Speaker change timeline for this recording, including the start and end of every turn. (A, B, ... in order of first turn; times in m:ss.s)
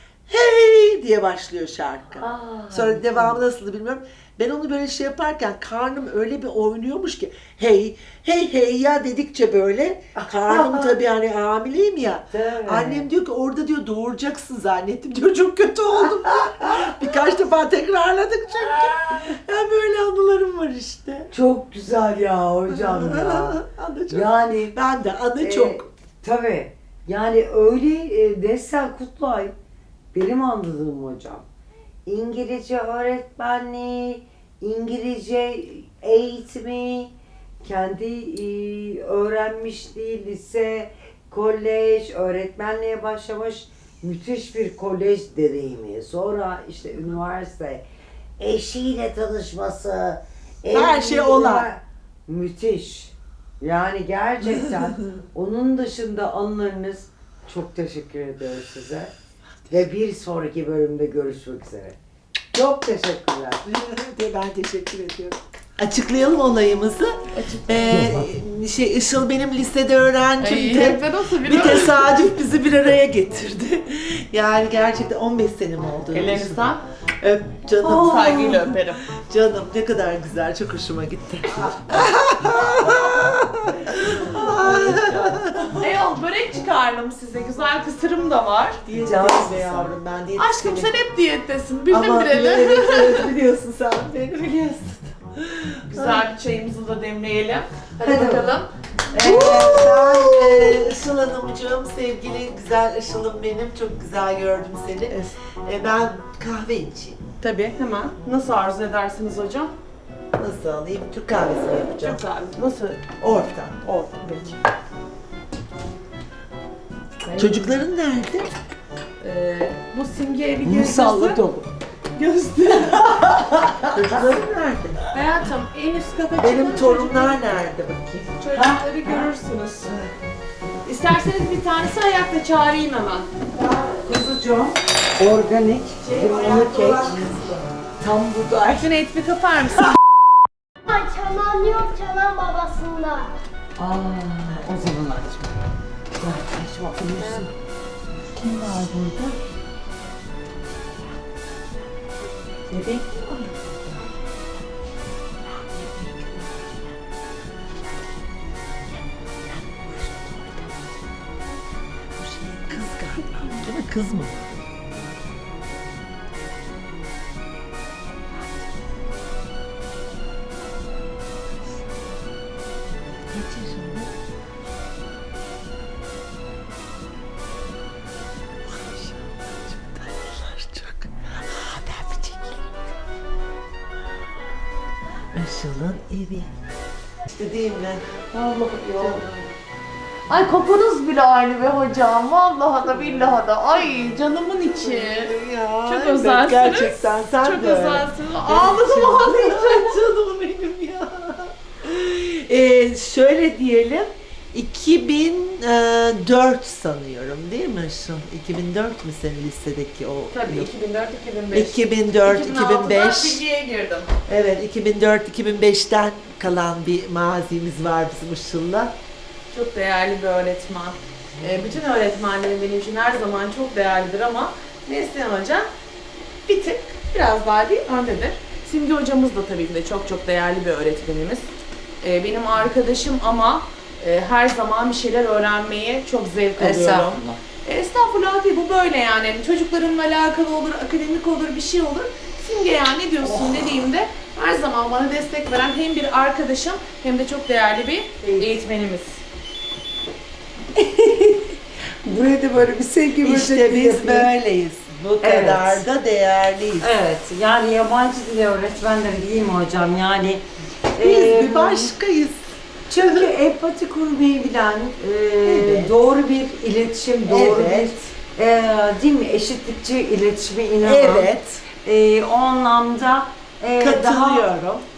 0:00.3-0:21.3 A
0:02.1-0:03.4 B
0:10.5-0:10.8 B
0:12.3-0:13.1 B
0:21.3-0:23.6 B
0:22.7-0:25.8 A
0:24.1-0:24.8 B
0:25.4-0:29.5 B
0:30.1-0:31.4 B
0:32.0-0:47.8 B
0:48.4-0:59.1 B
0:50.7-0:51.7 A
0:59.7-1:02.0 B
1:02.5-1:03.6 B
1:03.6-1:07.2 A
1:07.3-1:08.2 C
1:07.7-1:26.0 A
1:07.9-1:08.2 B
1:10.4-1:12.1 C
1:16.1-1:16.8 C
1:17.8-1:19.0 C
1:24.7-1:25.0 C
1:25.8-1:28.8 C
1:28.8-1:31.0 A
1:28.9-1:29.9 B
1:30.4-1:33.3 C
1:31.9-1:36.0 A
1:35.9-1:38.7 C
1:38.0-1:38.6 B
1:39.1-1:47.2 A
1:39.1-1:40.8 B
1:47.4-1:49.7 C
1:50.3-1:52.2 A
1:51.9-1:53.1 C
1:53.2-1:53.8 A
1:53.8-1:54.6 C
1:57.2-1:57.8 C
1:57.4-1:58.5 A
1:59.2-2:01.4 C
2:00.6-2:01.7 B
2:02.1-2:03.1 C
2:02.9-2:03.9 B
2:03.9-2:05.1 A
2:05.1-2:07.7 C
2:06.4-2:08.4 A
2:08.4-2:10.0 C
2:08.5-2:09.3 B
2:10.8-2:13.3 C
2:14.0-2:17.3 B
2:16.0-2:17.7 A
2:18.0-2:18.9 B
2:18.8-2:20.0 C
2:20.9-2:23.3 D
2:23.8-2:25.6 B
2:26.2-2:27.5 B
2:28.3-2:29.4 B
2:32.7-2:33.4 B
2:35.7-2:36.5 A
2:39.5-2:41.0 A
2:42.2-2:44.6 A
2:53.3-2:54.2 A
2:58.6-3:02.7 A
3:05.3-3:06.5 A
3:07.2-3:08.2 A
3:08.3-3:09.2 C
3:08.9-3:09.3 A
3:10.3-3:15.3 C
3:14.6-3:30.7 A
3:15.8-3:20.0 C
3:30.3-3:34.1 C
3:31.5-3:33.4 A
3:34.2-3:38.9 A
3:39.5-3:45.7 C
3:46.4-3:51.5 C
3:52.0-4:09.2 C
3:56.6-3:57.4 B
4:03.2-4:03.5 B
4:10.8-4:14.3 B
4:13.2-4:16.9 A
4:15.2-4:15.9 B
4:16.8-4:21.9 B
4:21.0-4:22.4 A
4:22.9-4:31.3 B
4:23.0-4:23.3 A
4:25.4-4:26.1 A
4:27.2-4:28.1 A
4:30.8-4:31.7 A
4:31.8-4:34.5 B
4:33.8-4:34.8 A